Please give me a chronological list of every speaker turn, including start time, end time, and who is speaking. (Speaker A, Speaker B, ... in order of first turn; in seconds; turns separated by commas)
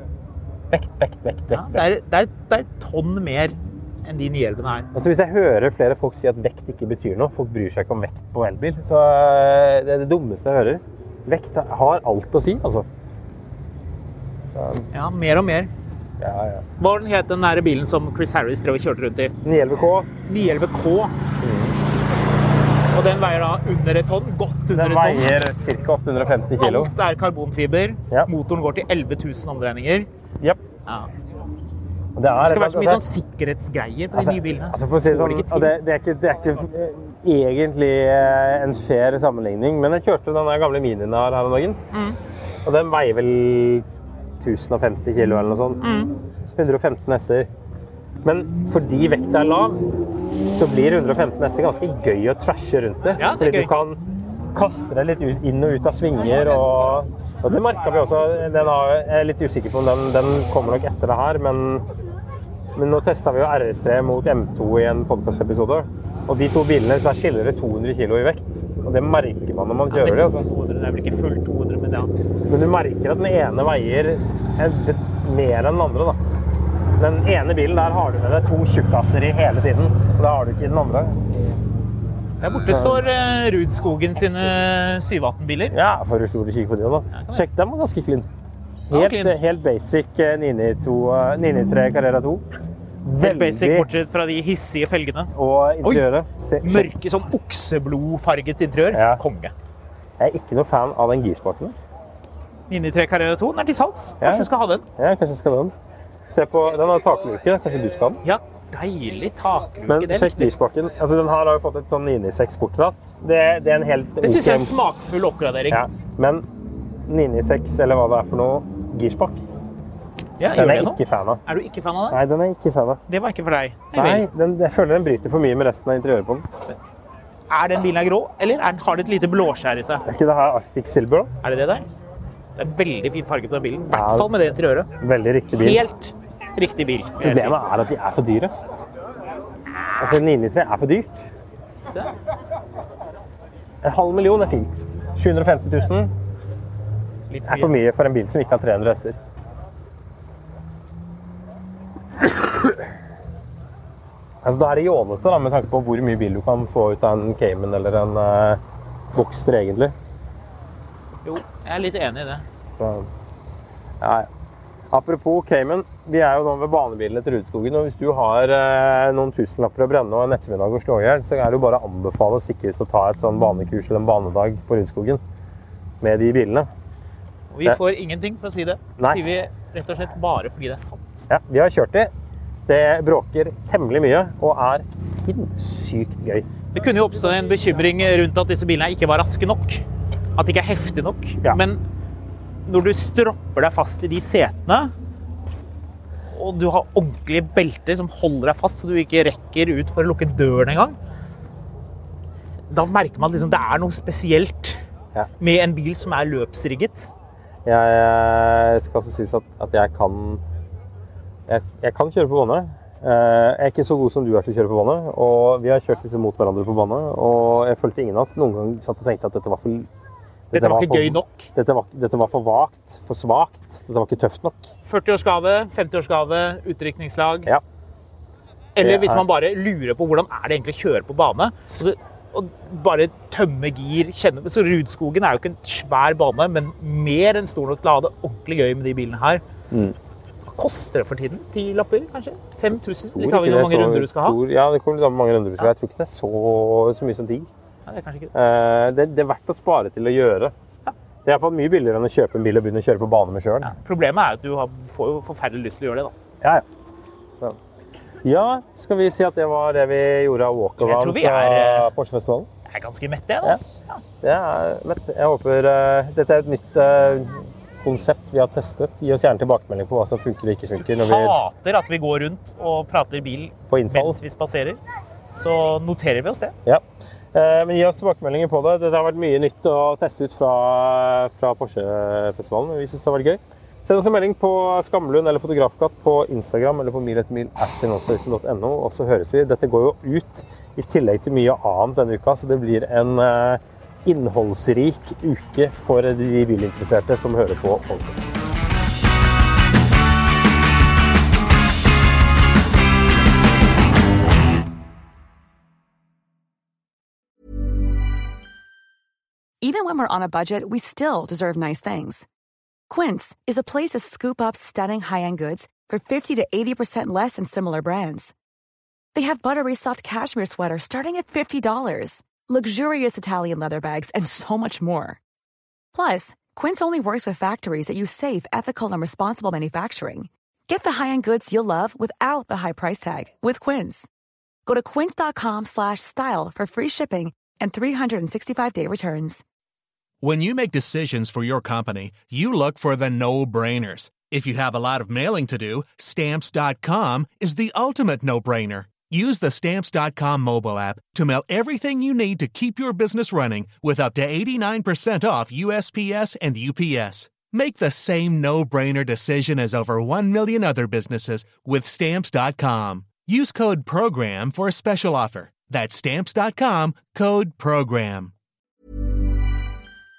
Speaker A: 0.7-1.9, Speaker B: 1.5-4.9, Speaker A: 4.9-12.9, Speaker A: 14.5-14.9, Speaker B: 14.9-15.7, Speaker A: 16.2-16.7, Speaker B: 16.8-19.4, Speaker A: 19.4-20.1, Speaker B: 20.2-21.1, Speaker A: 21.4-21.8, Speaker B: 22.9-25.3, Speaker A: 24.7-26.9, Speaker B: 26.6-30.1, Speaker A: 32.2-33.0, Speaker B: 32.4-35.8, Speaker A: 34.1-41.8, Speaker B: 41.9-42.2, Speaker A: 42.6-43.9, Speaker A: 44.4-45.8, Speaker B: 45.8-46.2, Speaker A: 46.6-47.5, Speaker A: 48.2-49.9, Speaker A: 50.5-61.9, Speaker B: 53.2-53.7, Speaker A: 62.8-70.5, Speaker B: 69.9-72.1, Speaker A: 72.5-76.2, Speaker A: 77.0-81.2, Speaker B: 82.4-85.8, Speaker A: 82.6-83.0, Speaker A: 85.7-88.3, Speaker B: 87.1-87.4, Speaker B: 88.9-89.4, Speaker A: 88.9-92.5, Speaker A: 93.0-93.9, Speaker B: 93.2-95.3, Speaker A: 95.3-96.9, Speaker B: 96.6-99.5, Speaker A: 98.9-99.2, Speaker A: 100.2-101.8, Speaker B: 102.7-104.8, Speaker A: 104.2-105.7, Speaker A: 106.3-108.2, Speaker B: 108.2-110.5, Speaker A: 109.9-114.7, Speaker B: 114.2-115.8, Speaker A: 115.7-116.5, Speaker A: 117.1-119.4, Speaker B: 120.4-122.2, Speaker A: 120.5-121.4, Speaker A: 122.1-123.0, Speaker B: 123.1-124.3, Speaker A: 123.9-126.5, Speaker B: 127.5-130.0, Speaker A: 130.1-131.3, Speaker B: 131.4-131.9, Speaker B: 132.6-134.9, Speaker A: 133.9-134.3, Speaker A: 135.0-135.8, Speaker B: 135.6-137.6, Speaker A: 137.2-138.5, Speaker B: 139.7-140.2, Speaker A: 140.0-141.3, Speaker B: 141.8-142.1, Speaker A: 143.8-146.1, Speaker B: 147.3-147.8, Speaker A: 147.4-149.2, Speaker A: 152.2-152.8, Speaker A: 154.4-158.6, Speaker A: 159.1-159.9, Speaker B: 161.2-162.4, Speaker A: 162.7-163.1, Speaker A: 164.0-164.3, Speaker A: 164.9-175.2, Speaker A: 176.0-176.7, Speaker B: 177.5-181.3, Speaker A: 179.0-179.3, Speaker A: 181.3-182.1, Speaker A: 182.7-186.5, Speaker B: 186.7-189.8, Speaker B: 190.4-191.8, Speaker B: 192.7-194.9, Speaker B: 196.3-201.0, Speaker B: 202.7-204.8, Speaker B: 205.4-207.1, Speaker A: 207.7-210.4, Speaker A: 211.5-219.9, Speaker A: 220.5-224.7, Speaker B: 220.5-221.5, Speaker B: 224.9-227.5, Speaker B: 228.8-239.4, Speaker A: 228.8-229.2, Speaker A: 239.7-240.0, Speaker B: 240.5-244.4, Speaker A: 242.7-247.5, Speaker B: 247.9-248.3, Speaker A: 248.3-250.5, Speaker A: 251.2-253.7, Speaker B: 253.6-256.1, Speaker A: 258.2-262.5, Speaker B: 260.8-261.9, Speaker B: 262.7-264.0, Speaker A: 264.2-271.4, Speaker B: 270.8-274.8, Speaker A: 273.7-274.2, Speaker B: 275.3-276.6, Speaker A: 276.6-298.4, Speaker C: 309.6-312.3, Speaker C: 312.9-318.3, Speaker C: 319.1-325.2, Speaker C: 325.9-334.1, Speaker C: 334.7-339.4, Speaker D: 340.2-368.3